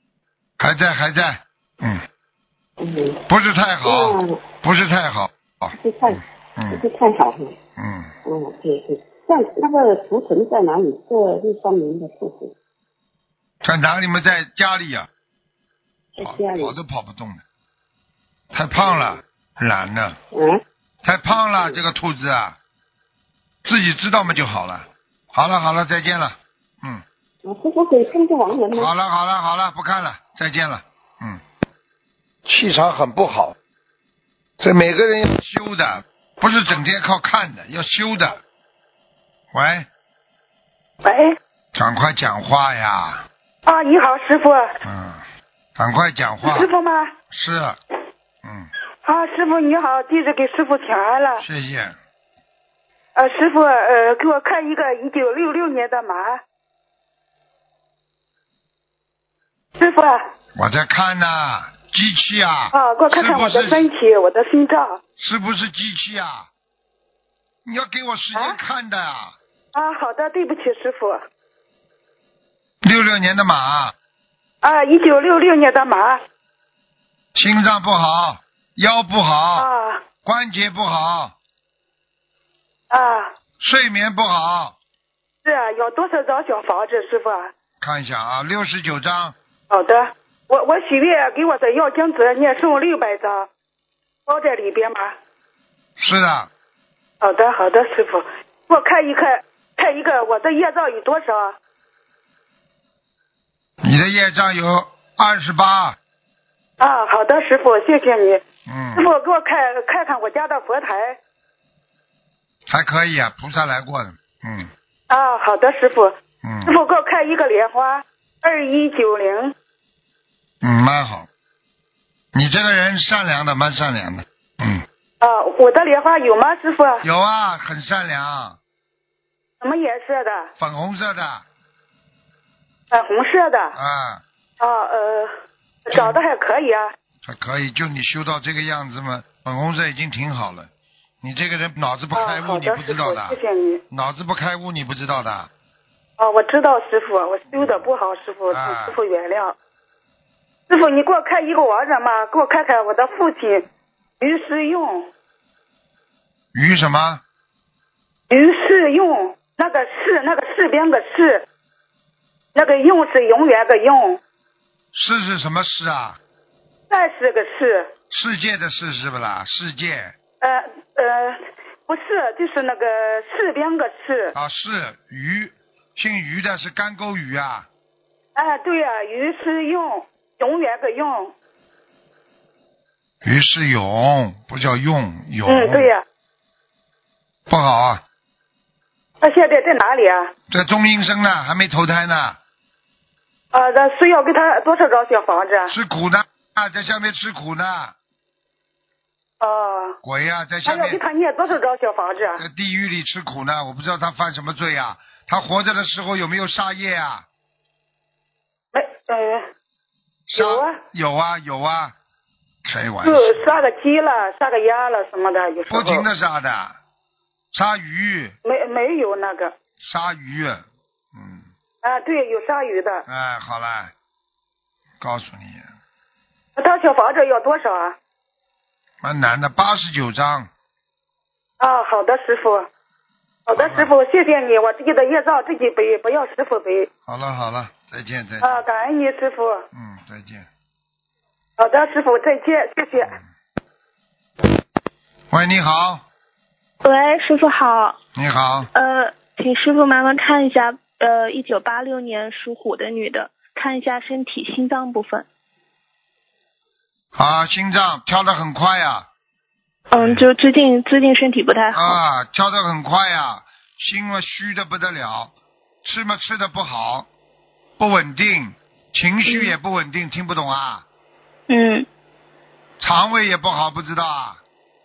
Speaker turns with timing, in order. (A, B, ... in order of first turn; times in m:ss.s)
0:00.6-0:02.0 A
0:02.8-0:03.2 B
0:03.3-0:05.7 A
0:03.8-0:04.4 B
0:05.7-0:07.5 B
0:06.6-0:06.8 A
0:07.8-0:08.1 A
0:08.2-0:12.5 B
0:13.6-0:15.1 A
0:16.1-0:16.7 B
0:16.2-0:17.4 A
0:18.5-0:20.2 A
0:20.3-0:20.6 B
0:21.0-0:22.6 A
0:21.3-0:21.8 B
0:23.6-0:27.0 A
0:27.4-0:28.9 B
0:28.5-0:31.4 A
0:32.4-0:33.6 A
0:34.6-0:38.4 A
0:39.5-0:39.9 A
0:41.0-0:41.3 C
0:41.7-0:43.2 A
0:43.6-0:44.6 C
0:44.8-0:46.7 A
0:46.4-0:47.1 C
0:47.3-0:47.8 A
0:48.4-0:48.7 A
0:49.0-0:51.4 C
0:51.4-0:51.9 A
0:53.2-0:56.4 C
0:59.8-1:00.2 C
1:00.6-1:03.9 A
1:02.7-1:05.0 C
1:05.2-1:06.5 A
1:07.6-1:09.4 A
1:09.7-1:11.2 C
1:12.8-1:13.9 A
1:14.6-1:16.2 C
1:17.3-1:19.7 A
1:19.6-1:20.0 C
1:20.2-1:21.3 A
1:22.9-1:23.3 C
1:23.6-1:24.8 A
1:25.4-1:27.5 C
1:27.8-1:29.3 A
1:29.7-1:33.5 C
1:34.3-1:35.1 C
1:36.0-1:36.5 A
1:37.2-1:41.6 C
1:43.8-1:46.0 A
1:46.8-1:48.4 C
1:48.7-1:49.0 A
1:48.9-1:51.2 C
1:52.7-1:54.7 A
1:55.1-1:59.5 C
1:56.4-1:56.7 A
2:00.6-2:01.3 A
2:02.3-2:04.8 A
2:05.2-2:07.0 C
2:07.0-2:08.6 A
2:09.6-2:10.5 C
2:10.6-2:11.4 A
2:12.9-2:13.7 C
2:13.7-2:14.2 A
2:14.6-2:15.3 C
2:15.9-2:16.9 C
2:15.9-2:16.2 A
2:17.2-2:20.7 A
2:21.2-2:23.4 A
2:22.1-2:23.8 C
2:23.9-2:25.5 A
2:26.2-2:29.5 C
2:27.5-2:27.8 A
2:28.5-2:29.0 A
2:30.7-2:33.6 C
2:34.2-2:35.1 C
2:36.5-2:37.2 A
2:38.3-2:41.4 C
2:42.5-2:44.2 C
2:44.9-2:46.2 A
2:46.9-2:47.9 C
2:48.1-2:50.1 A
2:50.4-2:51.4 C
2:51.9-2:54.3 C
2:54.3-2:57.7 A
2:58.4-3:01.3 C
3:03.2-3:05.9 A
3:05.5-3:06.0 C
3:07.5-3:08.0 A
3:09.2-3:10.3 C
3:10.5-3:12.4 A
3:13.5-3:15.7 C
3:15.7-3:17.9 A
3:19.4-3:20.0 C
3:20.0-3:21.0 A
3:20.6-3:22.4 C
3:22.4-3:27.2 A
3:28.7-3:29.4 C
3:30.3-3:31.9 A
3:30.3-3:30.7 C
3:32.6-3:33.5 A
3:33.0-3:36.0 C
3:35.7-3:36.8 A
3:37.5-3:38.4 A
3:38.4-3:39.5 C
3:39.8-3:40.6 A
3:41.1-3:41.4 A
3:41.8-3:43.0 C
3:43.1-3:43.9 A
3:45.0-3:45.7 A
3:46.6-3:48.0 C
3:49.0-3:50.5 A
3:51.6-3:52.7 C
3:53.4-3:56.9 C
3:53.6-3:53.9 A
3:57.1-3:58.6 A
3:58.4-3:59.6 C
3:59.7-4:00.5 A
4:01.6-4:03.1 C
4:05.3-4:06.0 A
4:06.8-4:08.0 D
4:08.1-4:08.7 A
4:08.7-4:15.2 D
4:17.1-4:19.1 A
4:19.9-4:22.0 D
4:19.9-4:20.3 A
4:21.7-4:27.1 A
4:27.8-4:30.8 A
4:29.2-4:29.5 D
4:31.5-4:31.9 D
4:32.8-4:34.4 A